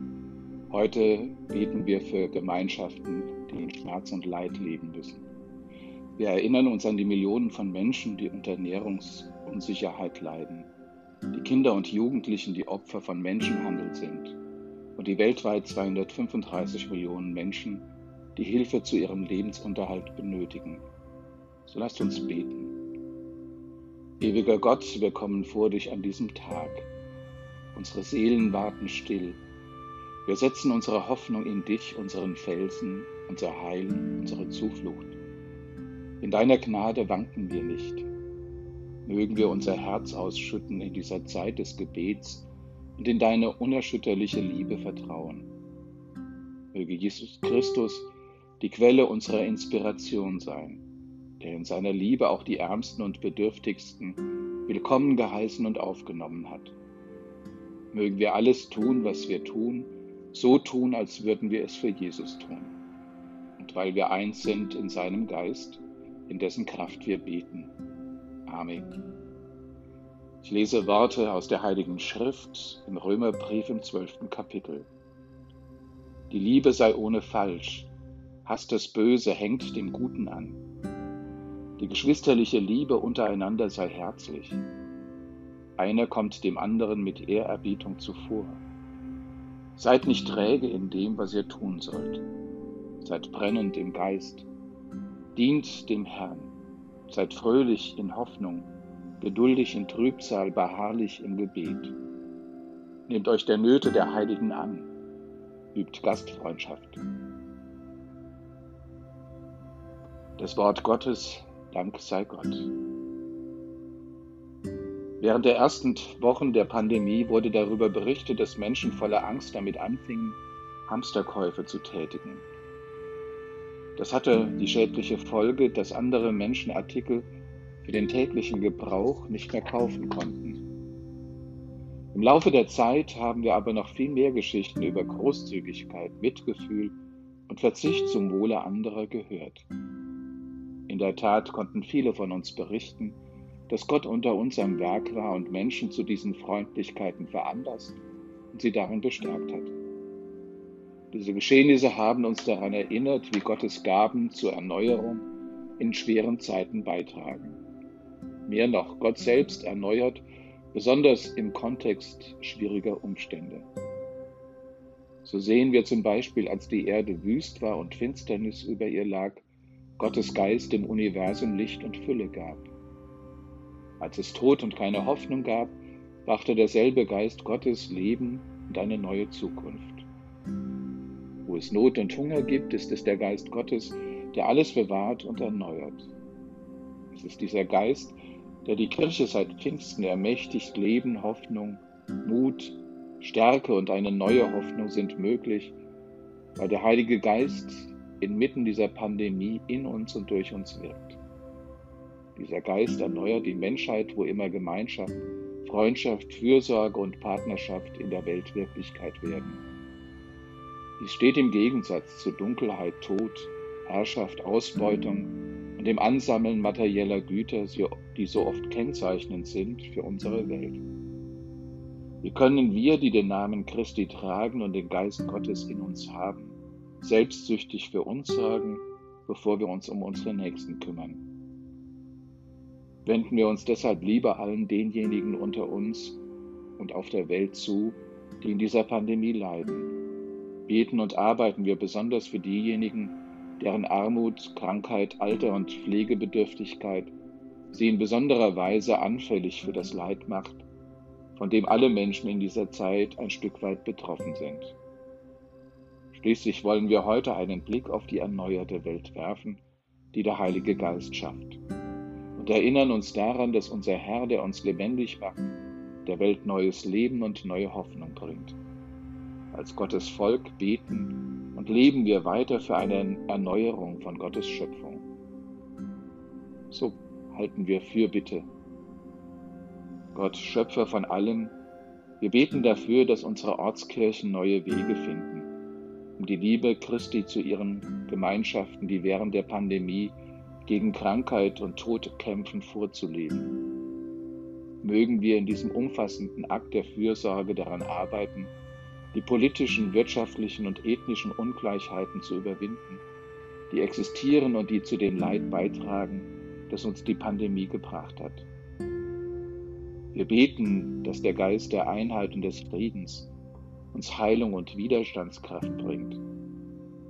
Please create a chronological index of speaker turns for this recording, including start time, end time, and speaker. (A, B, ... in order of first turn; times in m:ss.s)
0:00.7-0:05.2 A
0:06.2-0:10.7 A
0:11.3-0:14.4 A
0:15.0-0:20.8 A
0:21.6-0:22.7 A
0:24.2-0:26.9 A
0:27.7-0:29.4 A
0:30.2-0:35.2 A
0:36.2-0:38.1 A
0:39.0-0:45.5 A
0:46.7-0:50.8 A
0:51.4-0:56.7 A
0:57.9-1:02.7 A
1:03.6-1:07.7 A
1:08.4-1:08.9 A
1:10.4-1:14.9 A
1:16.3-1:17.9 A
1:18.4-1:20.6 A
1:21.8-1:24.6 A
1:25.8-1:28.6 A
1:29.8-1:32.2 A
1:33.0-1:34.5 A
1:35.3-1:36.5 A
1:37.1-1:38.7 A
1:39.2-1:41.9 A
1:43.1-1:44.9 A
1:45.7-1:47.0 A
1:50.4-1:52.7 A
1:55.2-2:02.4 A
2:04.0-2:07.3 A
2:07.8-2:10.6 A
2:12.1-2:16.9 A
2:17.5-2:19.7 A
2:20.9-2:23.2 A
2:23.7-2:28.0 A
2:28.5-2:29.7 A
2:31.1-2:35.2 A
2:35.8-2:37.6 A
2:38.5-2:43.7 A
2:45.2-2:49.4 A
2:50.0-2:52.7 A
2:54.0-3:00.0 A
3:01.4-3:06.1 A
3:07.1-3:15.8 A
3:16.6-3:21.2 A
3:22.4-3:29.6 A
3:31.0-3:40.8 A
3:42.2-3:51.2 A
3:53.0-3:56.2 A
3:56.8-3:59.9 A
4:00.7-4:07.1 A
4:07.7-4:10.6 A
4:11.4-4:14.7 A
4:16.1-4:19.6 A
4:20.1-4:21.6 A
4:22.4-4:25.5 A
4:26.0-4:28.6 A
4:29.5-4:35.0 A
4:36.7-4:38.5 A
4:40.1-4:41.5 A
4:42.2-4:45.5 A
4:46.2-4:53.5 A
4:54.8-4:58.5 A
4:59.1-5:03.0 A
5:03.7-5:08.5 A
5:10.1-5:13.3 A
5:13.9-5:16.2 A